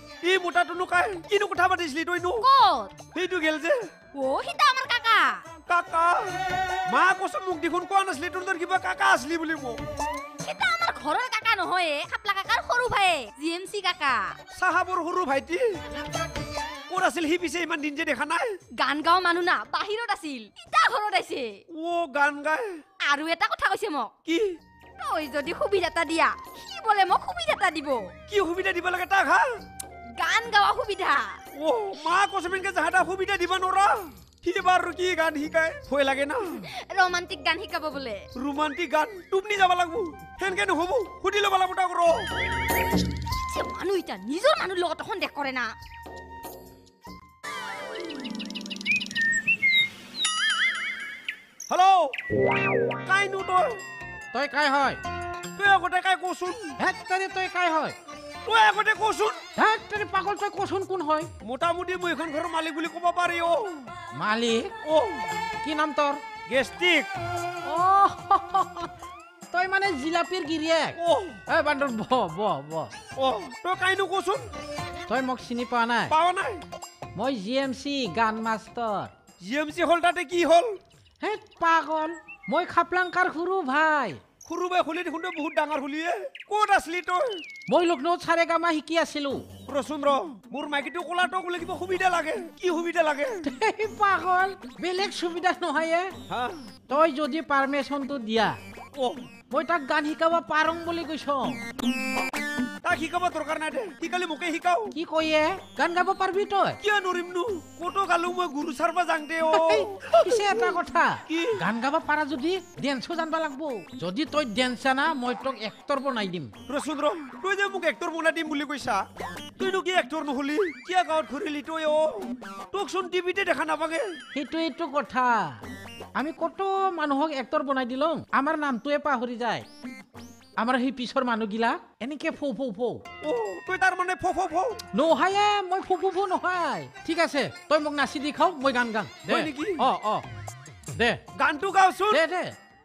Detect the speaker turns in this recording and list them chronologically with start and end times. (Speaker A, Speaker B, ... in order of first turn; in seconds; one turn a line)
Speaker A: 0.2-2.5
Speaker B: 2.4-3.0
Speaker A: 3.1-3.9
Speaker B: 4.1-5.4
Speaker A: 5.7-9.8
Speaker B: 10.4-14.3
Speaker A: 14.5-15.8
Speaker A: 16.9-18.6
Speaker B: 18.8-21.6
Speaker A: 21.7-22.8
Speaker B: 23.0-24.1
Speaker A: 24.2-24.6
Speaker B: 25.0-28.1
Speaker A: 28.3-29.5
Speaker B: 30.1-31.3
Speaker A: 31.5-36.6
Speaker B: 36.9-38.2
Speaker A: 38.4-42.3
Speaker B: 43.5-45.7
Speaker A: 51.7-52.1
Speaker A: 53.0-53.8
Speaker C: 54.3-55.0
Speaker A: 55.5-56.7
Speaker C: 56.8-58.0
Speaker A: 58.4-59.4
Speaker C: 59.5-61.3
Speaker A: 61.4-63.9
Speaker C: 64.2-64.8
Speaker A: 64.8-65.3
Speaker C: 65.6-66.2
Speaker A: 66.5-67.1
Speaker C: 67.7-68.9
Speaker C: 69.5-72.9
Speaker A: 71.0-71.4
Speaker A: 73.2-74.5
Speaker C: 75.1-76.1
Speaker A: 76.1-76.6
Speaker C: 77.1-79.1
Speaker A: 79.4-80.8
Speaker C: 81.2-84.2
Speaker A: 84.4-87.4
Speaker C: 87.7-89.4
Speaker A: 89.7-93.4
Speaker C: 93.4-96.1
Speaker A: 96.3-96.6
Speaker C: 96.9-98.6
Speaker A: 98.9-99.2
Speaker C: 99.5-101.6
Speaker A: 102.8-104.9
Speaker C: 104.9-106.8
Speaker A: 106.8-110.4
Speaker C: 109.5-116.5
Speaker A: 111.3-111.6
Speaker A: 116.7-119.0
Speaker A: 119.6-124.1
Speaker C: 124.3-125.6
Speaker C: 126.2-129.6
Speaker C: 130.6-133.0
Speaker A: 133.2-134.8
Speaker C: 134.9-140.2
Speaker A: 139.3-139.8
Speaker C: 140.9-141.2
Speaker A: 141.3-142.2
Speaker C: 142.1-142.5